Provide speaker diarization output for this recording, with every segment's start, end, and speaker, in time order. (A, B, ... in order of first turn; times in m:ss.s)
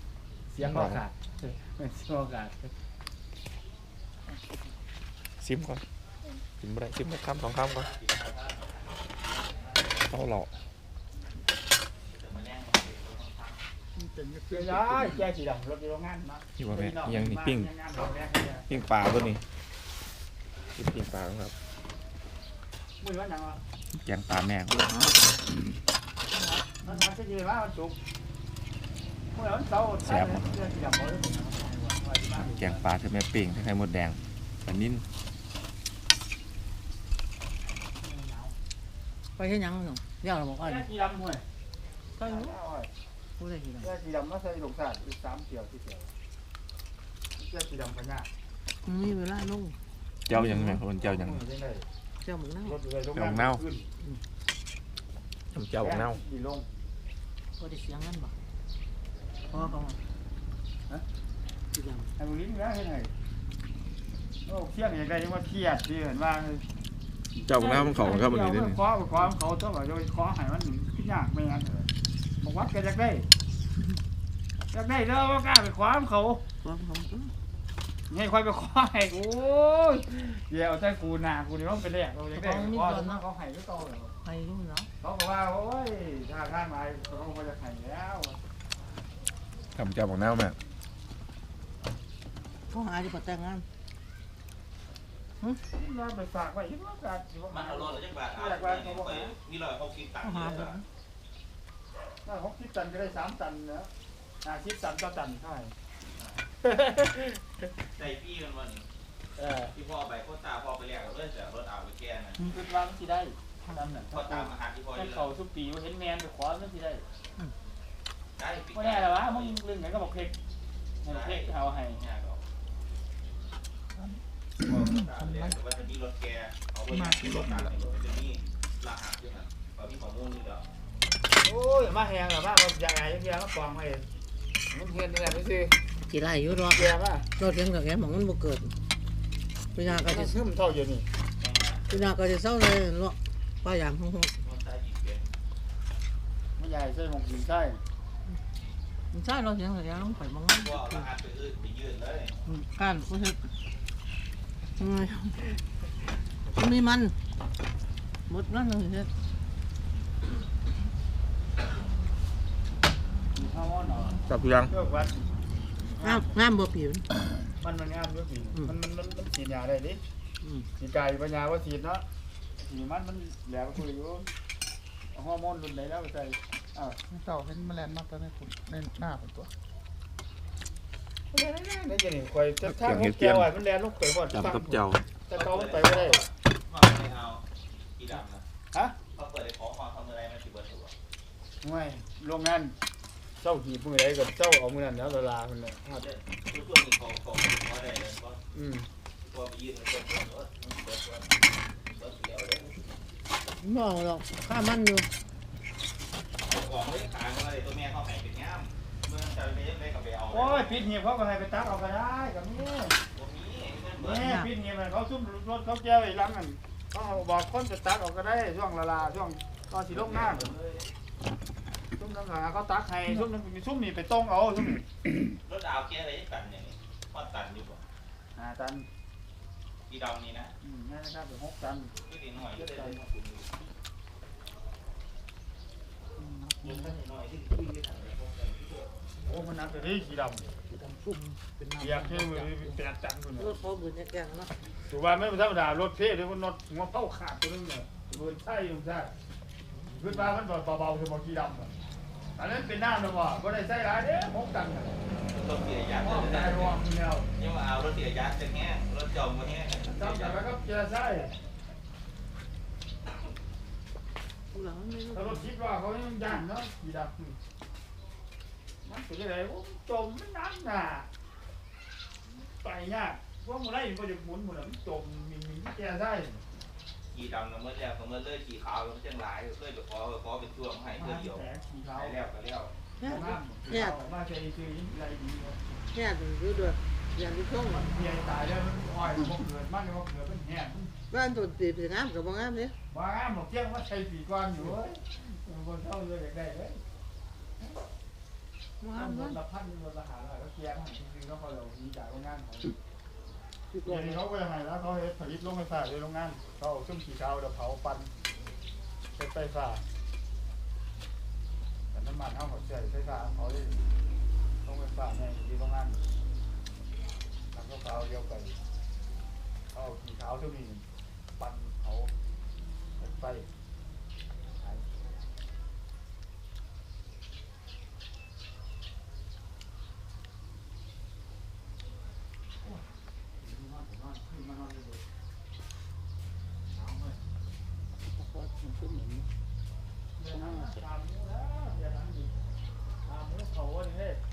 0:00.5-0:02.7 A
0:00.6-0:01.0 B
0:04.3-0:04.6 C
0:05.4-0:05.8 B
0:06.6-0:07.9 B
0:07.8-0:09.0 D
0:09.9-0:10.5 B
0:12.0-0:13.6 D
0:14.0-0:15.2 C
0:14.5-0:18.7 A
0:16.6-0:17.7 B
0:18.7-0:19.4 B
0:20.8-0:21.5 B
0:23.0-0:23.6 A
0:24.0-0:25.3 B
0:26.8-0:28.0 A
0:29.3-0:32.8 A
0:30.0-0:30.5 B
0:32.4-0:35.1 B
0:38.0-0:38.6 A
0:39.4-0:40.9 E
0:40.6-0:41.4 A
0:42.2-0:42.6 E
0:42.2-0:42.9 A
0:43.4-0:43.9 E
0:43.8-0:46.1 A
0:47.4-0:48.3 A
0:48.8-0:49.8 E
0:50.3-0:51.4 B
0:50.4-0:50.8 E
0:51.0-0:51.9 A
0:52.2-0:52.8 E
0:52.6-0:53.9 A
0:53.1-0:53.6 B
0:55.5-0:56.2 B
0:55.8-0:56.7 A
0:57.6-0:58.4 E
0:59.5-1:00.0 E
1:01.7-1:02.1 E
1:02.2-1:03.1 A
1:04.5-1:06.7 A
1:07.4-1:08.8 B
1:07.5-1:11.9 A
1:12.4-1:13.3 A
1:14.7-1:16.4 A
1:16.6-1:17.3 E
1:18.1-1:24.2 A
1:22.3-1:23.2 E
1:24.2-1:24.9 E
1:25.0-1:28.4 A
1:29.8-1:30.6 B
1:32.7-1:33.7 E
1:35.7-1:39.4 A
1:37.5-1:40.8 D
1:40.2-1:40.8 E
1:42.2-1:43.9 A
1:44.4-1:45.8 A
1:46.6-1:47.7 A
1:47.9-1:48.9 D
1:49.4-1:49.7 A
1:49.7-1:52.4 D
1:52.4-1:57.0 A
1:54.1-1:55.3 D
1:58.4-1:59.6 D
1:58.8-2:00.3 A
2:01.0-2:02.0 A
2:01.0-2:02.4 D
2:04.0-2:05.6 C
2:04.6-2:10.7 D
2:06.9-2:07.8 C
2:11.4-2:14.1 A
2:14.7-2:15.8 A
2:16.1-2:18.8 E
2:16.7-2:17.3 A
2:19.8-2:20.4 E
2:19.8-2:21.1 A
2:21.4-2:22.0 D
2:21.9-2:24.4 E
2:24.4-2:25.3 D
2:26.6-2:27.8 A
2:29.1-2:31.1 E
2:30.5-2:32.4 D
2:32.5-2:33.5 E
2:34.8-2:35.6 E
2:36.5-2:37.2 E
2:38.3-2:39.1 E
2:43.3-2:45.3 A
2:44.3-2:44.7 B
2:46.0-2:46.4 A
2:46.0-2:47.1 E
2:47.6-2:50.0 A
2:50.4-2:50.7 E
2:50.8-2:52.0 A
2:52.6-2:54.3 A
2:55.1-2:57.0 A
2:57.1-2:59.5 C
3:01.3-3:06.2 A
3:02.6-3:03.5 B
3:04.3-3:05.0 B
3:05.3-3:07.4 D
3:08.0-3:08.4 D
3:09.1-3:10.9 D
3:11.6-3:12.8 A
3:13.4-3:16.1 A
3:15.9-3:18.4 D
3:18.5-3:18.9 A
3:19.2-3:22.9 D
3:23.5-3:25.1 E
3:26.4-3:30.8 D
3:30.3-3:33.0 A
3:33.1-3:34.2 D
3:34.0-3:40.5 A
3:34.2-3:34.5 E
3:39.9-3:40.9 D
3:42.0-3:44.8 A
3:45.4-3:47.8 D
3:48.4-3:48.9 A
3:49.9-3:50.5 D
3:50.6-3:53.0 A
3:52.0-3:53.7 D
3:56.2-3:57.0 C
3:56.6-3:58.9 D
3:59.2-4:00.5 A
4:00.7-4:02.8 C
4:01.8-4:03.6 A
4:03.4-4:04.5 E
4:04.8-4:09.1 A
4:09.9-4:11.7 A
4:12.4-4:15.1 A
4:15.3-4:16.8 D
4:16.0-4:17.3 A
4:17.4-4:20.5 D
4:19.9-4:21.3 A
4:24.5-4:25.5 E
4:25.1-4:27.4 A
4:28.8-4:31.1 A
4:32.4-4:36.4 A
4:37.1-4:42.7 D
4:41.0-4:42.2 A
4:43.0-4:44.0 E
4:43.0-4:45.8 A
4:45.9-4:47.9 E
4:47.6-4:50.9 A
4:51.1-4:52.8 E
4:52.9-4:56.8 A
4:58.8-4:59.4 E
4:58.9-5:02.8 A
5:03.7-5:04.2 C
5:03.8-5:08.1 A
5:09.2-5:09.8 A
5:11.9-5:13.8 A
5:14.6-5:16.0 A
5:17.5-5:18.6 A
5:19.7-5:20.9 A
5:21.4-5:22.1 A
5:23.0-5:23.5 A
5:24.6-5:24.9 A
5:32.6-5:32.9 A
5:33.4-5:35.0 A
5:36.7-5:37.2 A
5:38.0-5:39.3 C
5:40.2-5:42.5 A
5:40.3-5:40.8 C
5:43.0-5:44.2 A